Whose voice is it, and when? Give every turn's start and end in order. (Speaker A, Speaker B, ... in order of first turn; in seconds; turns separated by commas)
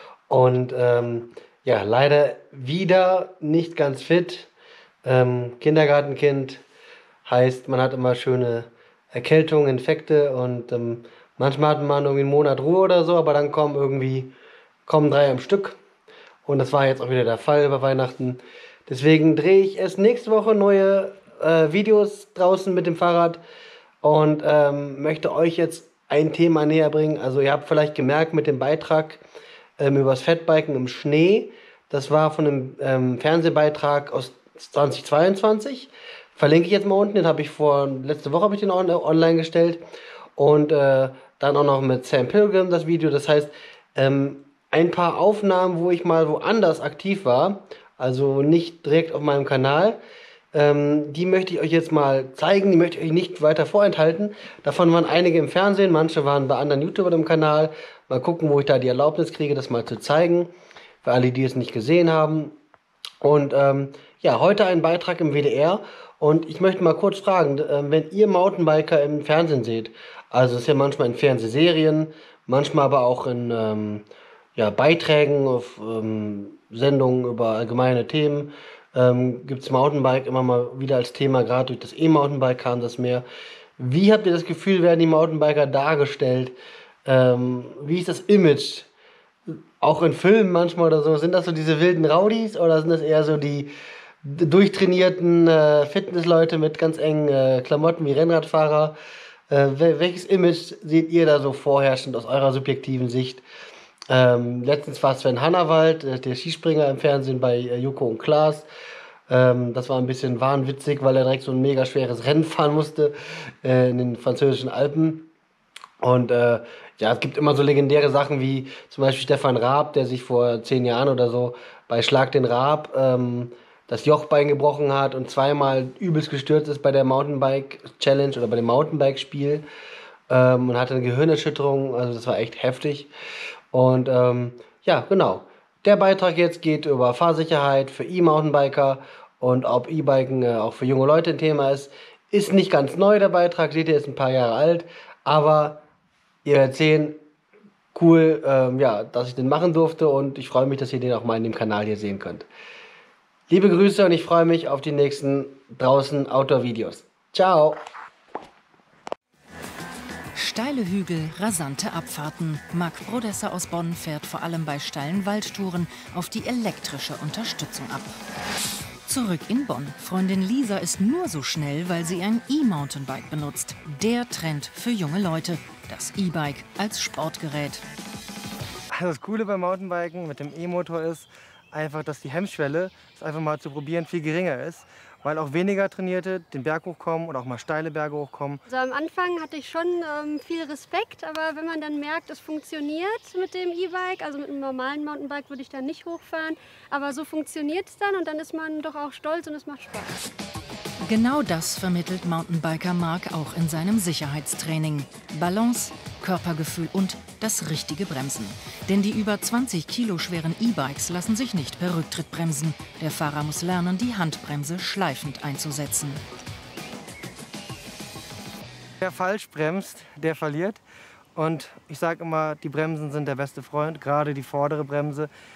Speaker A: 0.3-4.5, Speaker A: 5.0-6.6, Speaker A: 7.2-14.3, Speaker A: 14.9-15.8, Speaker A: 16.5-23.4, Speaker A: 24.0-29.2, Speaker A: 29.8-39.8, Speaker A: 40.4-50.0, Speaker A: 50.5-60.5, Speaker A: 61.0-62.5, Speaker A: 63.2-74.0, Speaker A: 74.6-83.2, Speaker A: 83.8-86.5, Speaker A: 87.0-88.9, Speaker A: 89.8-93.7, Speaker A: 94.2-99.0, Speaker A: 99.5-103.4, Speaker A: 104.1-108.7, Speaker A: 109.3-115.3, Speaker A: 116.0-129.7, Speaker A: 130.3-133.1, Speaker A: 133.7-145.8, Speaker A: 146.4-147.2, Speaker A: 147.9-152.5, Speaker A: 153.5-157.8, Speaker B: 160.3-168.2, Speaker B: 169.1-177.8, Speaker A: 179.0-181.2, Speaker C: 179.3-181.2, Speaker C: 181.8-188.3, Speaker A: 181.9-184.6, Speaker A: 185.6-188.6, Speaker D: 188.7-200.1, Speaker B: 201.0-216.2, Speaker C: 219.0-220.8, Speaker A: 220.2-220.8, Speaker C: 221.4-225.3, Speaker A: 221.8-222.1